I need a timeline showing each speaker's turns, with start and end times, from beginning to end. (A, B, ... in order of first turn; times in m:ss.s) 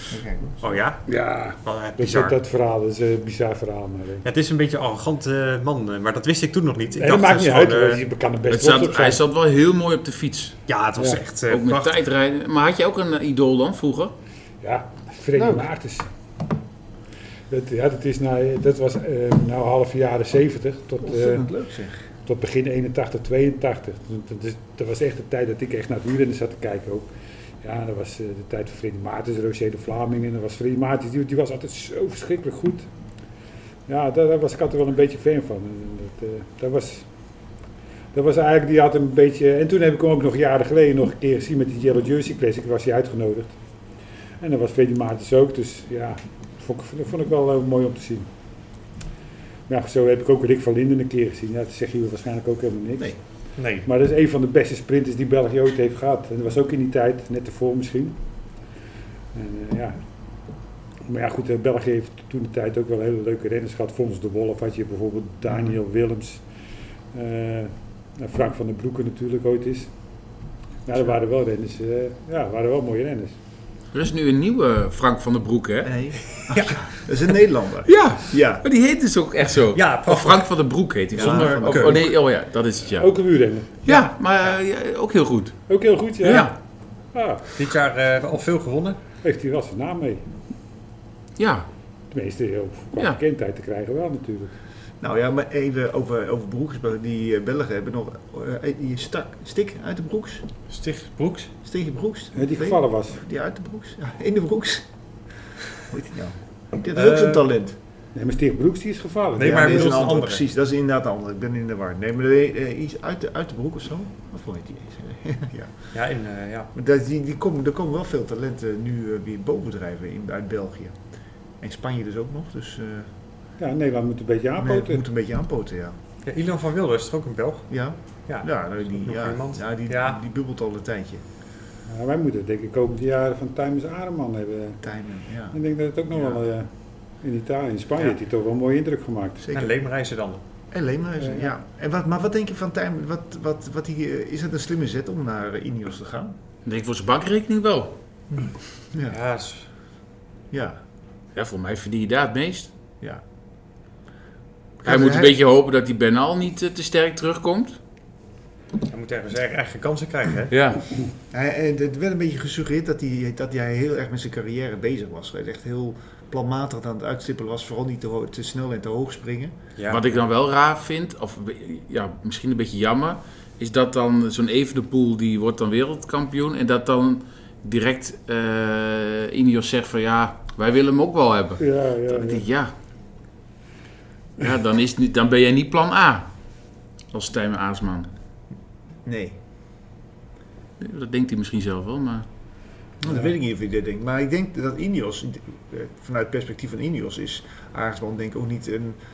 0:00.1-0:00.7 A
0:00.6-0:02.4 B
0:01.0-0:04.2 C
0:04.2-0:08.0 B
0:07.0-0:09.2 C
0:08.5-0:10.6 D
0:10.7-0:11.9 B
0:11.0-0:11.2 C
0:11.5-0:14.1 D
0:14.6-0:16.1 C
0:15.4-0:15.6 A
0:17.5-0:21.4 C
0:21.0-0:22.0 A
0:22.2-0:27.1 C
0:27.6-0:32.9 C
0:33.9-0:37.1 C
0:38.1-0:43.6 C
0:44.4-0:48.3 C
0:49.7-0:53.1 C
0:53.6-0:53.9 B
0:53.8-0:58.2 C
0:59.3-1:00.0 C
1:01.0-1:06.4 C
1:07.1-1:09.9 C
1:10.8-1:13.4 C
1:13.9-1:16.2 D
1:15.8-1:18.6 A
1:16.5-1:16.8 B
1:17.9-1:23.1 D
1:19.7-1:20.5 B
1:21.1-1:22.1 A
1:21.2-1:22.0 B
1:23.0-1:24.1 C
1:23.8-1:25.7 D
1:25.7-1:26.6 C
1:26.2-1:26.5 D
1:27.1-1:27.4 C
1:27.5-1:29.0 B
1:29.2-1:30.2 C
1:31.4-1:31.7 D
1:32.1-1:34.5 C
1:35.0-1:40.5 A
1:40.7-1:41.5 B
1:41.6-1:44.9 A
1:42.3-1:43.2 C
1:45.8-1:47.8 A
1:46.9-1:47.4 B
1:48.1-1:50.0 C
1:49.4-1:50.4 B
1:49.4-1:55.9 A
1:55.9-1:56.7 B
1:56.7-2:01.0 A
2:01.6-2:03.1 A
2:03.6-2:05.0 C
2:04.6-2:05.9 A
2:06.2-2:10.2 B
2:07.7-2:11.2 A
2:11.8-2:14.8 C
2:14.8-2:15.6 A
2:15.5-2:19.4 C
2:16.1-2:16.4 A
2:19.4-2:19.7 A
2:19.5-2:20.4 B
2:20.7-2:26.4 A
2:21.2-2:21.5 C
2:26.6-2:27.9 D
2:28.3-2:29.2 A
2:29.1-2:29.6 B
2:30.5-2:30.8 A
2:31.3-2:32.7 D
2:34.8-2:35.4 A
2:34.8-2:37.8 D
2:38.9-2:40.5 B
2:40.5-2:40.8 D
2:41.3-2:49.5 A
2:49.8-2:50.0 B
2:49.9-3:02.7 D
3:01.6-3:02.4 C
3:04.4-3:06.3 D
3:07.1-3:08.1 D
3:09.0-3:09.4 A
3:10.8-3:12.2 D
3:13.0-3:19.0 A